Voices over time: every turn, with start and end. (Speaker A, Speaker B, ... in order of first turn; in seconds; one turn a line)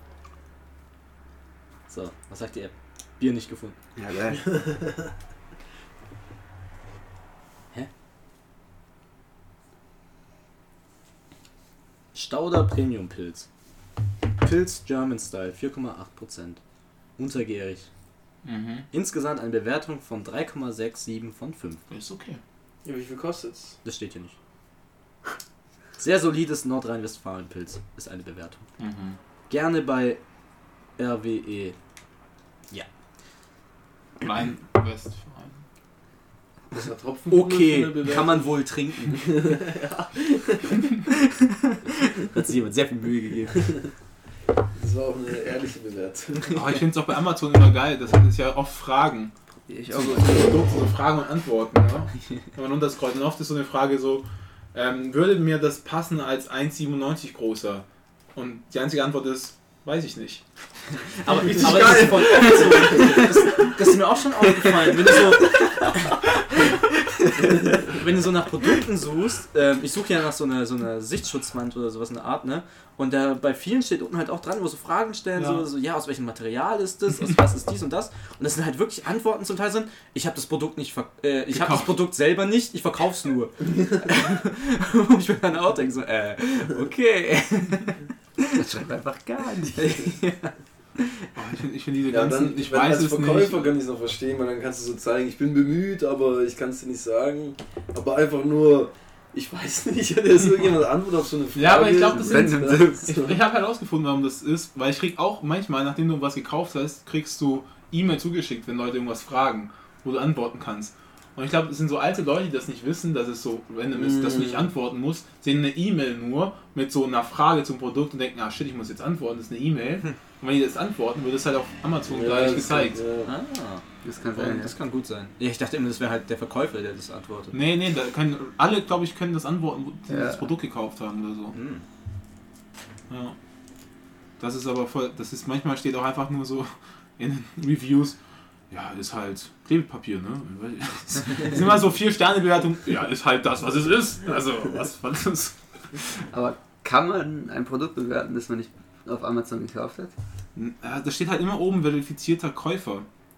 Speaker A: 1.9-3.8
Speaker B: 4.0-4.7
Speaker A: 12.1-13.5
Speaker A: 14.4-16.6
Speaker A: 17.2-17.9
Speaker C: 18.4-18.9
Speaker A: 18.9-21.8
Speaker C: 21.9-22.4
Speaker D: 22.9-23.8
Speaker A: 23.9-24.3
Speaker A: 26.0-28.6
Speaker C: 28.8-29.2
Speaker A: 29.5-30.2
Speaker A: 31.0-31.8
Speaker C: 34.2-35.6
Speaker D: 36.7-38.5
Speaker A: 37.3-39.6
Speaker D: 39.1-40.2
Speaker A: 41.1-43.8
Speaker D: 44.8-46.6
Speaker C: 46.5-49.3
Speaker B: 49.7-50.6
Speaker C: 49.9-60.5
Speaker A: 61.2-66.2
Speaker C: 61.3-63.3
Speaker A: 67.4-88.6
Speaker C: 75.3-75.7
Speaker C: 81.5-82.1
Speaker B: 88.5-90.1
Speaker A: 89.8-91.2
Speaker C: 91.3-93.8
Speaker D: 92.1-103.3
Speaker C: 101.5-123.0
Speaker B: 101.9-103.1
Speaker D: 113.9-114.7
Speaker D: 122.1-123.3
Speaker A: 123.2-127.6
Speaker B: 124.0-124.7
Speaker C: 127.5-131.6
Speaker B: 130.1-130.5
Speaker A: 131.5-131.8
Speaker C: 133.1-133.3
Speaker C: 134.4-138.2
Speaker C: 138.7-145.6
Speaker B: 146.3-150.1
Speaker C: 150.6-153.1